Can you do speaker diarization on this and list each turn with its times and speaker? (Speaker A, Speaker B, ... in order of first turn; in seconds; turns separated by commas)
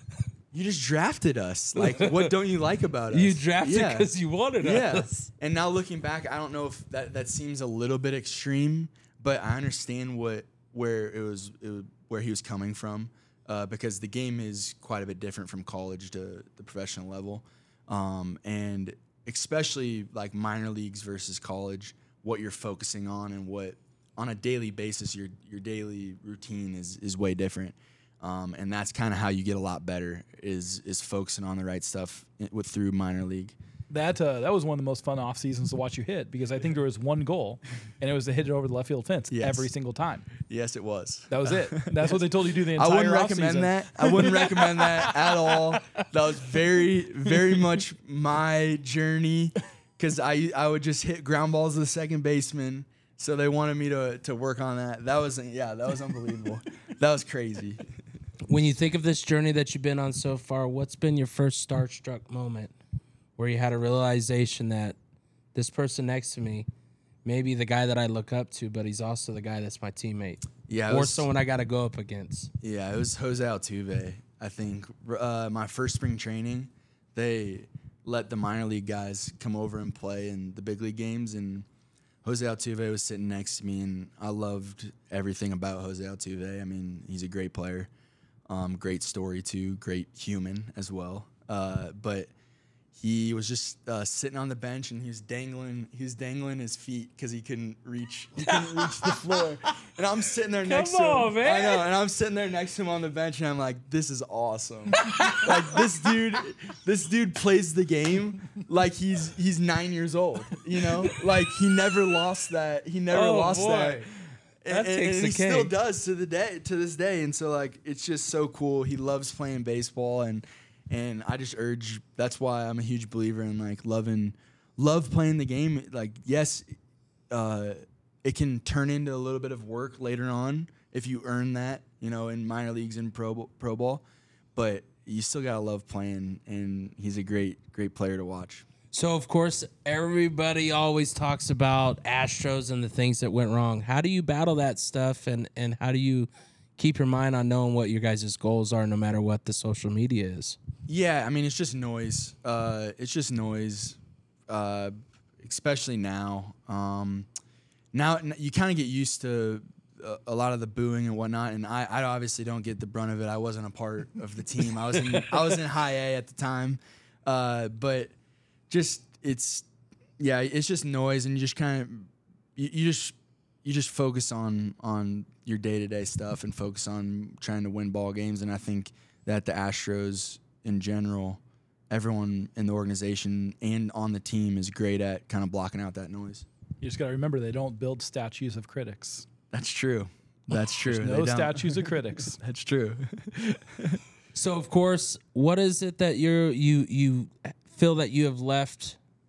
Speaker A: 0.5-4.1, Speaker B: 1.8-2.3, Speaker B: 3.1-5.3, Speaker A: 4.6-33.6, Speaker C: 33.9-40.3, Speaker A: 39.3-39.7, Speaker A: 40.4-42.2, Speaker C: 41.3-45.1, Speaker A: 42.7-57.8, Speaker B: 58.5-62.7, Speaker B: 63.4-65.0, Speaker B: 65.5-66.7, Speaker B: 67.2-72.5, Speaker A: 70.7-71.3, Speaker A: 72.6-81.7, Speaker A: 82.2-87.9, Speaker A: 88.5-92.3, Speaker A: 92.9-114.1, Speaker B: 98.5-99.2, Speaker B: 100.6-101.8, Speaker B: 105.0-105.6, Speaker B: 113.1-114.0, Speaker A: 114.6-126.7, Speaker B: 114.7-115.7, Speaker A: 127.3-134.0, Speaker A: 134.6-138.7, Speaker B: 138.9-150.6, Speaker A: 150.9-157.3, Speaker A: 157.9-168.1, Speaker A: 168.7-169.7, Speaker A: 170.2-186.5, Speaker C: 186.8-189.3, Speaker A: 189.5-194.0, Speaker C: 190.8-192.4, Speaker B: 194.3-199.0